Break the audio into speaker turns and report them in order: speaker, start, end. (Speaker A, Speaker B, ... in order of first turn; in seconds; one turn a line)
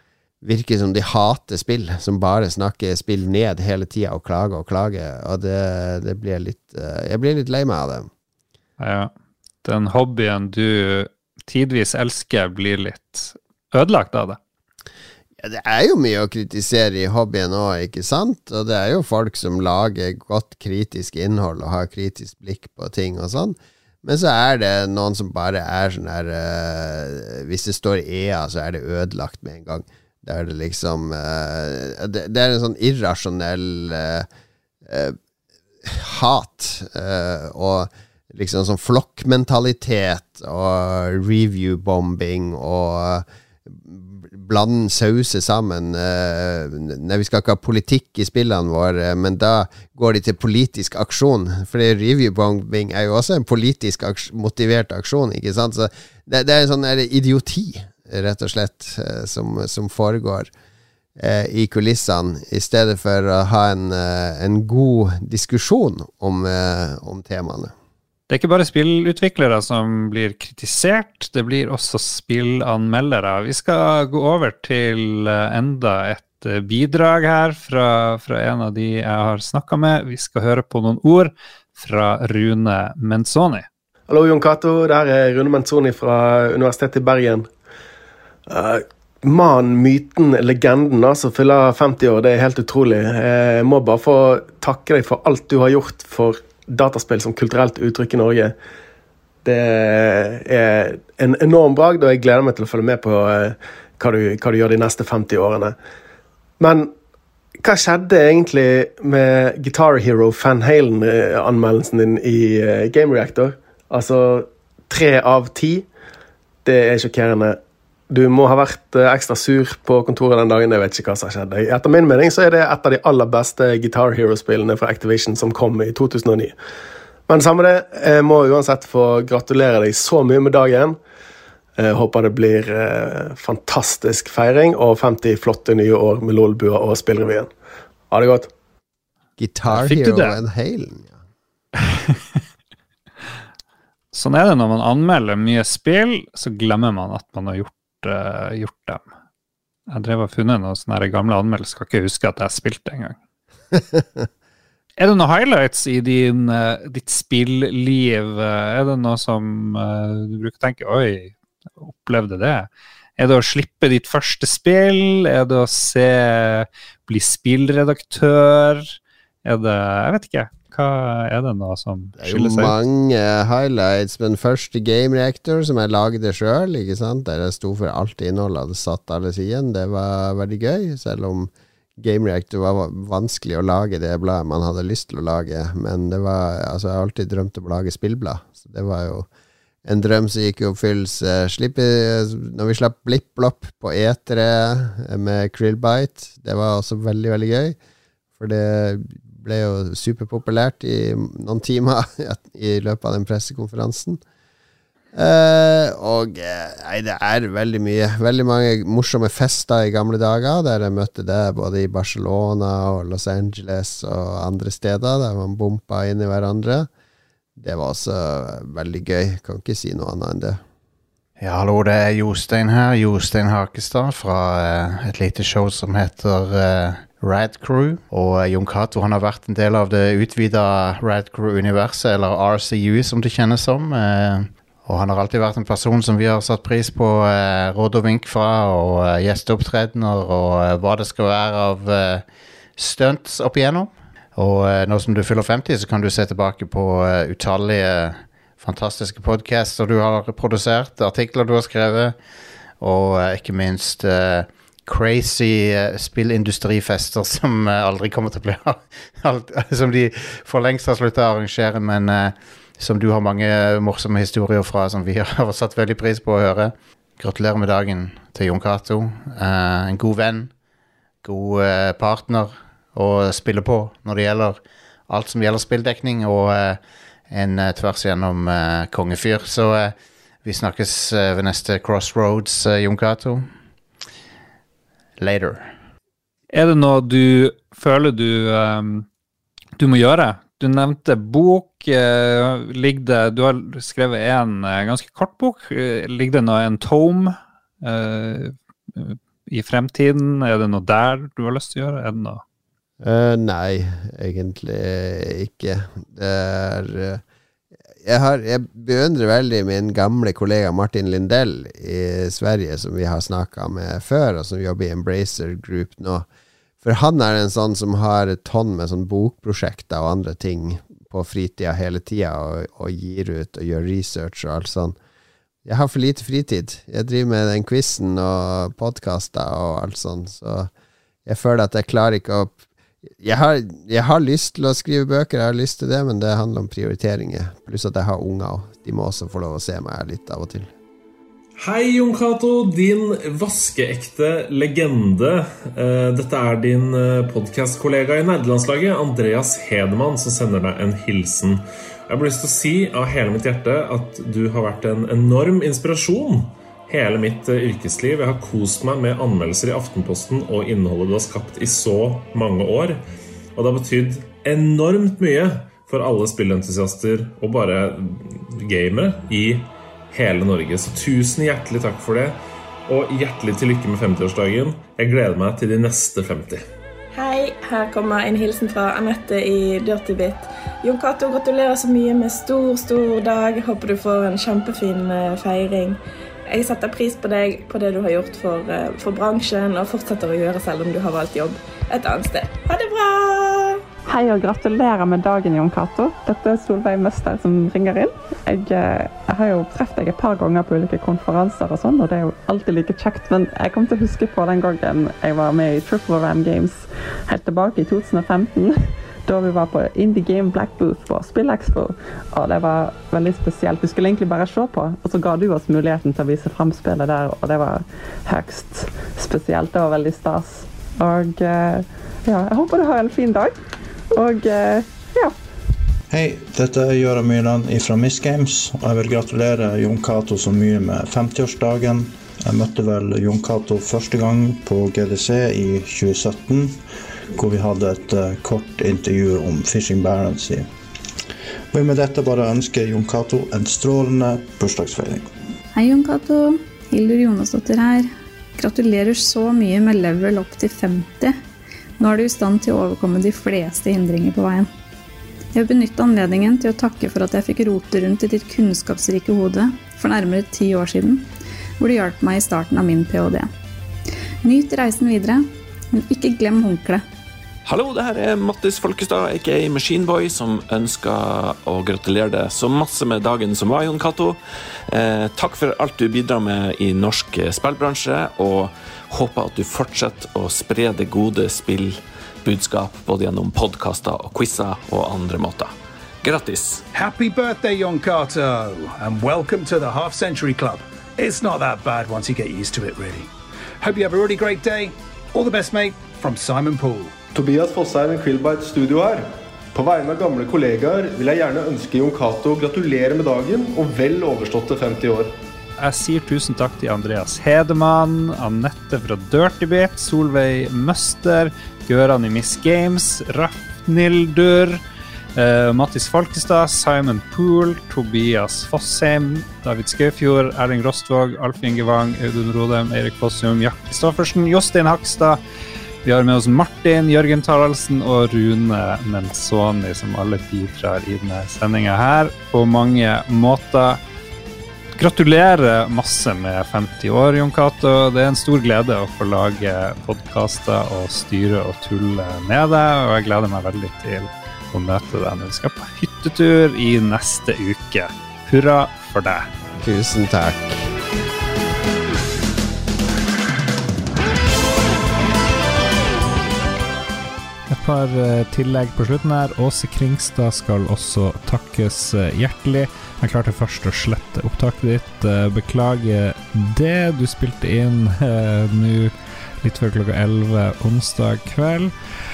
Speaker A: 0.4-8.1
Speaker B: 8.8-9.1
Speaker B: 9.6-14.4
Speaker A: 15.4-34.3
Speaker A: 34.9-35.2
Speaker A: 35.8-60.5
Speaker A: 61.2-67.7
Speaker B: 68.3-83.7
Speaker C: 84.1-87.5
Speaker C: 88.5-98.5
Speaker C: 99.5-105.8
Speaker C: 106.6-106.9
Speaker C: 107.6-115.9
Speaker C: 116.7-117.6
Speaker C: 118.1-126.6
Speaker C: 127.3-131.0
Speaker C: 131.8-137.5
Speaker C: 138.1-138.5
Speaker A: 139.4-141.2
Speaker B: 139.7-140.4
Speaker B: 141.9-142.2
Speaker B: 144.1-149.0
Speaker B: 149.9-153.2
Speaker B: 155.0-172.8
Speaker A: 172.2-189.3
Speaker A: 189.8-197.8
Speaker A: 198.4-204.2
Speaker A: 205.1-216.9
Speaker A: 217.6-220.6
Speaker D: 221.4-242.2
Speaker D: 242.8-252.2
Speaker D: 252.8-270.5
Speaker D: 271.2-283.5
Speaker D: 285.2-285.7
Speaker B: 286.5-289.1
Speaker B: 289.8-302.4
Speaker A: 303.0-307.2
Speaker A: 308.0-316.3
Speaker A: 316.8-325.0
Speaker A: 325.6-330.7
Speaker A: 331.3-332.6
Speaker A: 333.2-340.7
Speaker E: 341.6-363.0
Speaker E: 363.6-376.6
Speaker F: 377.1-393.8
Speaker G: 394.1-423.6
Speaker G: 424.1-425.3
Speaker H: 426.1-436.8
Speaker H: 437.3-440.7
Speaker H: 441.7-445.3
Speaker I: 445.8-451.4
Speaker I: 452.0-454.7
Speaker I: 455.5-461.3
Speaker I: 461.8-463.5
Speaker I: 464.4-467.0
Speaker J: 467.7-474.4
Speaker J: 474.9-486.8
Speaker K: 486.9-493.3
Speaker K: 493.8-497.1
Speaker L: 497.4-505.3
Speaker B: 505.8-514.8
Speaker B: 515.4-525.4
Speaker B: 526.0-534.0
Speaker B: 535.0-549.5
Speaker A: 549.8-550.9
Speaker B: 557.7-571.9